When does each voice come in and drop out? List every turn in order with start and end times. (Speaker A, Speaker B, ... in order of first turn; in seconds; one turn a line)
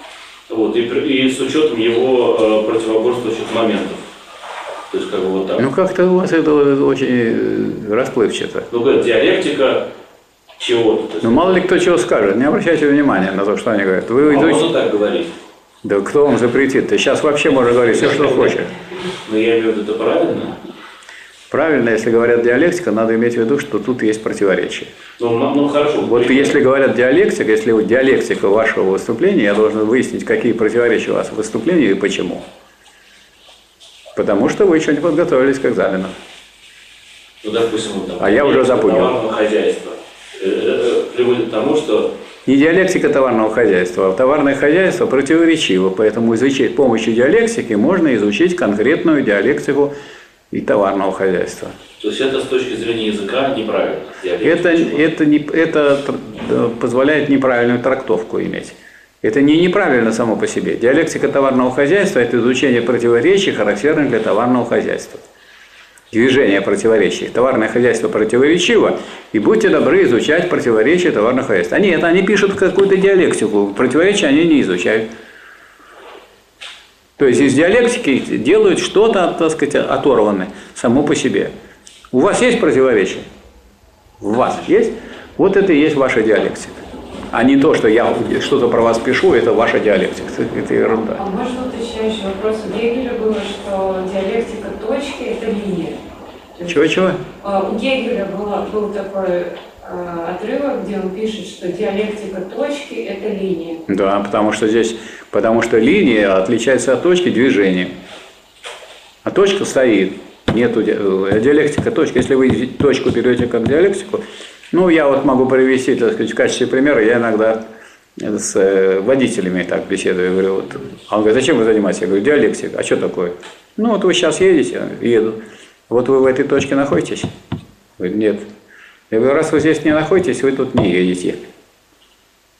Speaker A: 0.5-4.0
Speaker A: 4.9-5.7
Speaker B: 5.6-8.7
Speaker A: 8.7-9.8
Speaker A: 10.6-11.6
Speaker B: 11.2-14.7
Speaker A: 14.2-15.3
Speaker B: 15.8-18.7
Speaker A: 17.5-18.6
Speaker A: 19.1-20.6
Speaker B: 21.5-24.9
Speaker A: 25.2-26.6
Speaker B: 26.0-32.5
Speaker B: 34.1-36.1
Speaker A: 37.4-42.1
Speaker B: 38.2-39.2
Speaker B: 42.5-49.9
Speaker B: 50.5-51.8
Speaker A: 52.0-55.0
Speaker B: 54.4-65.2
Speaker B: 66.1-75.1
Speaker B: 77.2-81.5
Speaker B: 82.1-83.3
Speaker B: 84.2-86.8
Speaker B: 87.3-91.2
Speaker C: 91.2-96.0
Speaker B: 96.7-97.2
Speaker C: 97.4-103.8
Speaker B: 103.9-108.0
Speaker B: 109.2-117.6
Speaker B: 118.2-127.3
Speaker B: 128.0-128.5
Speaker B: 129.1-131.4